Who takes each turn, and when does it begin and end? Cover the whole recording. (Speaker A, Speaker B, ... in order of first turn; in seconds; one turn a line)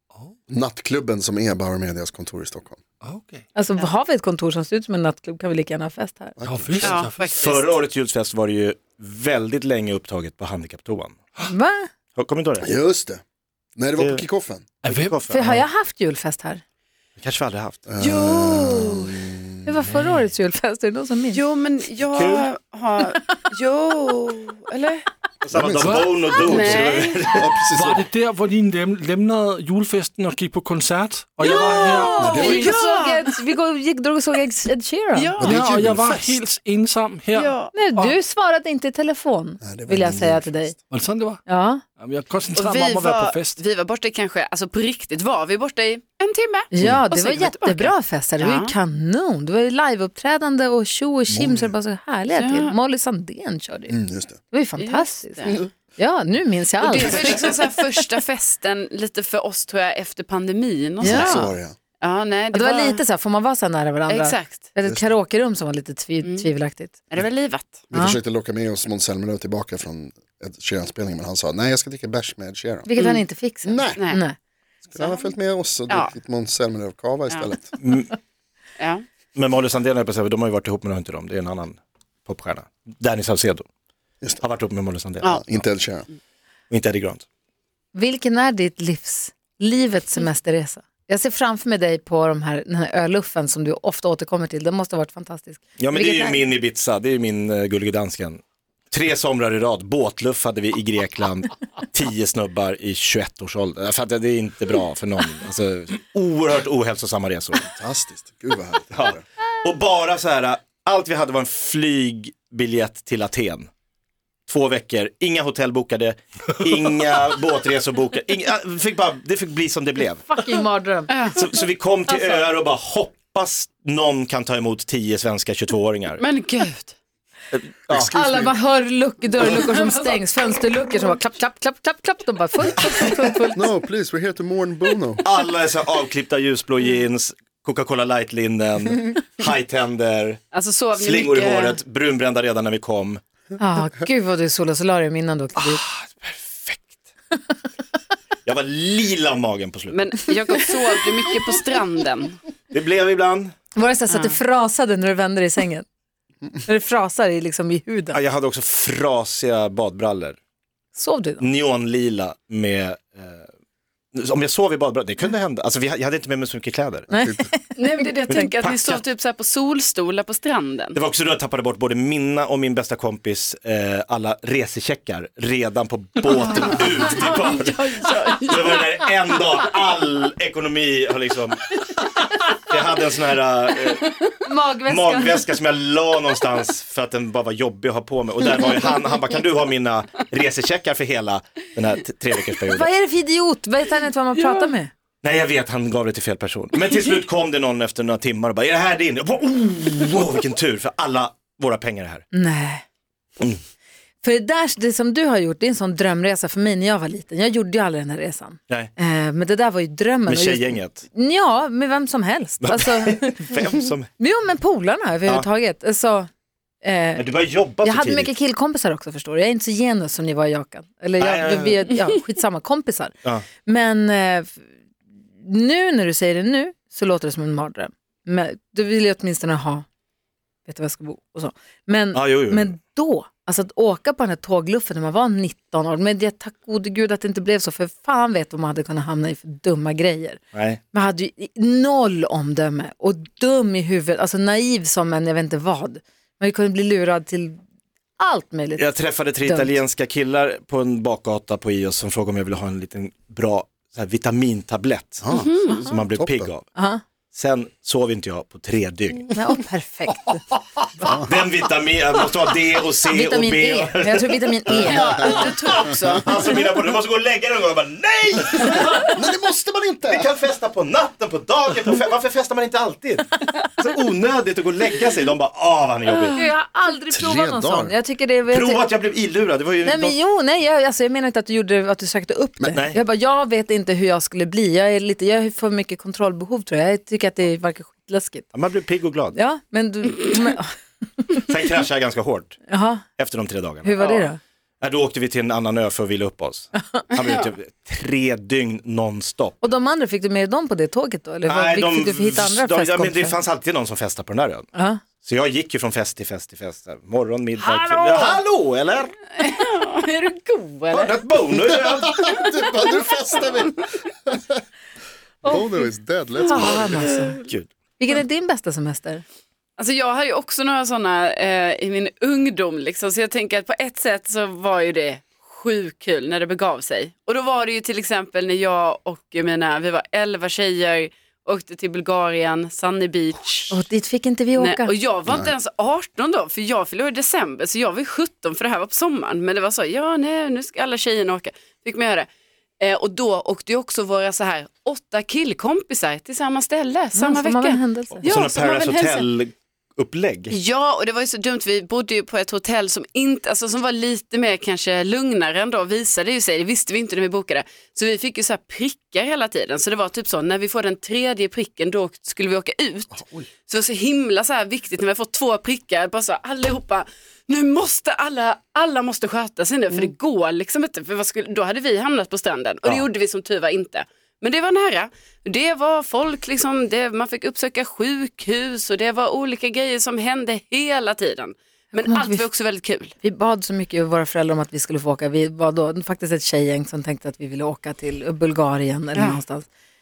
Speaker A: 0.5-2.8
Speaker B: 3.0-3.4
Speaker C: 3.5-6.4
Speaker A: 6.4-7.1
Speaker B: 6.4-7.2
Speaker D: 6.8-7.7
Speaker E: 7.2-11.2
Speaker C: 11.5-11.9
Speaker E: 12.2-12.7
Speaker A: 12.6-13.2
Speaker A: 13.8-14.6
Speaker E: 14.0-14.3
Speaker B: 14.8-15.6
Speaker E: 14.9-15.6
Speaker C: 15.3-16.6
Speaker E: 17.2-17.9
Speaker A: 17.9-19.7
Speaker D: 18.0-19.2
Speaker C: 19.6-21.4
Speaker D: 21.3-25.1
Speaker E: 22.1-22.5
Speaker E: 25.4-27.6
Speaker A: 25.5-26.1
Speaker B: 25.8-26.8
Speaker D: 26.4-27.3
Speaker A: 26.6-28.1
Speaker B: 27.7-32.6
Speaker C: 31.4-35.3
Speaker D: 31.5-33.3
Speaker A: 32.2-32.7
Speaker D: 35.1-35.6
Speaker B: 35.4-38.1
Speaker A: 35.4-36.4
Speaker D: 37.4-37.7
Speaker C: 37.7-40.8
Speaker A: 39.6-40.8
Speaker B: 40.9-41.4
Speaker C: 41.5-41.8
Speaker B: 42.0-43.6
Speaker D: 42.5-48.7
Speaker C: 46.7-54.0
Speaker A: 51.3-51.7
Speaker D: 52.3-52.7
Speaker A: 53.9-54.4
Speaker C: 54.5-57.5
Speaker D: 54.8-55.6
Speaker D: 56.8-63.0
Speaker C: 61.0-61.5
Speaker A: 61.0-61.8
Speaker C: 62.5-67.0
Speaker D: 64.1-64.7
Speaker A: 64.8-65.1
Speaker D: 66.2-66.5
Speaker D: 67.1-67.8
Speaker A: 67.9-72.9
Speaker C: 67.9-68.2
Speaker C: 72.8-74.4
Speaker A: 73.6-74.1
Speaker A: 74.9-77.8
Speaker D: 75.0-75.3
Speaker E: 77.8-78.2
Speaker D: 78.8-79.0
Speaker E: 79.3-83.7
Speaker E: 84.4-85.8
Speaker A: 85.3-86.1
Speaker E: 86.7-87.2
Speaker C: 87.9-96.5
Speaker E: 95.8-98.4
Speaker E: 98.9-107.7
Speaker A: 107.7-109.2
Speaker E: 108.9-113.7
Speaker E: 114.5-120.2
Speaker C: 120.3-121.2
Speaker D: 121.1-121.4
Speaker E: 121.3-126.2
Speaker C: 122.1-122.4
Speaker D: 126.2-127.0
Speaker E: 127.5-128.1
Speaker A: 127.9-128.6
Speaker C: 128.1-133.7
Speaker D: 129.7-130.2
Speaker A: 133.5-135.2
Speaker E: 135.2-140.4
Speaker D: 140.5-141.8
Speaker E: 140.9-143.2
Speaker C: 143.6-145.8
Speaker E: 145.6-147.0
Speaker E: 148.4-150.1
Speaker D: 149.9-152.4
Speaker E: 152.7-153.5
Speaker C: 153.8-155.8
Speaker D: 154.1-154.4
Speaker C: 156.7-158.2
Speaker E: 158.1-160.4
Speaker C: 160.9-161.4
Speaker E: 161.4-163.5
Speaker E: 164.2-167.1
Speaker C: 167.1-168.5
Speaker D: 167.8-171.0
Speaker E: 168.3-169.0
Speaker E: 170.9-184.2
Speaker D: 176.5-179.6
Speaker C: 184.4-185.4
Speaker E: 184.8-192.9
Speaker C: 192.7-194.9
Speaker E: 195.2-202.2
Speaker C: 202.3-202.8
Speaker C: 204.2-213.5
Speaker E: 210.3-211.1
Speaker E: 212.6-214.1
Speaker C: 214.2-216.3
Speaker C: 216.8-217.3
Speaker E: 217.2-218.3
Speaker C: 217.8-223.1
Speaker E: 221.2-221.9
Speaker C: 223.6-224.7
Speaker C: 225.4-229.9
Speaker C: 230.7-240.4
Speaker E: 232.1-232.7
Speaker E: 240.5-240.8
Speaker C: 240.9-247.6
Speaker C: 248.2-248.8
Speaker E: 248.8-256.6
Speaker C: 249.4-249.7
Speaker A: 255.2-256.5
Speaker D: 255.3-255.8
Speaker C: 256.8-257.0
Speaker E: 257.3-259.3
Speaker C: 259.3-260.4
Speaker A: 261.0-261.3
Speaker E: 261.2-269.2
Speaker C: 263.1-265.4
Speaker D: 264.9-266.5
Speaker A: 268.6-270.3
Speaker E: 270.1-276.4
Speaker C: 276.4-278.9
Speaker A: 277.1-277.9
Speaker E: 278.5-280.2
Speaker C: 279.8-288.5
Speaker E: 282.7-283.0
Speaker E: 288.5-289.4
Speaker C: 289.3-291.4
Speaker E: 291.4-292.6
Speaker C: 292.7-293.1
Speaker E: 293.2-294.0
Speaker C: 293.8-294.4
Speaker D: 294.0-294.3
Speaker E: 294.8-299.6
Speaker C: 296.8-297.0
Speaker C: 299.6-303.4
Speaker E: 301.4-304.7
Speaker C: 304.7-305.0
Speaker E: 305.2-309.2
Speaker D: 307.6-308.4
Speaker D: 309.4-311.6
Speaker E: 310.9-312.2
Speaker A: 311.8-314.6
Speaker D: 312.2-313.0
Speaker A: 315.4-316.8
Speaker C: 315.4-315.9
Speaker D: 316.4-317.2
Speaker C: 316.4-317.4
Speaker E: 316.6-317.7
Speaker C: 318.0-319.2
Speaker D: 319.8-333.8
Speaker C: 333.7-334.9
Speaker D: 334.6-342.3
Speaker A: 335.3-335.5
Speaker D: 342.8-349.3
Speaker C: 347.1-348.3
Speaker E: 348.2-350.6
Speaker D: 350.5-383.1
Speaker A: 363.2-363.5
Speaker C: 382.0-382.4
Speaker C: 383.2-389.7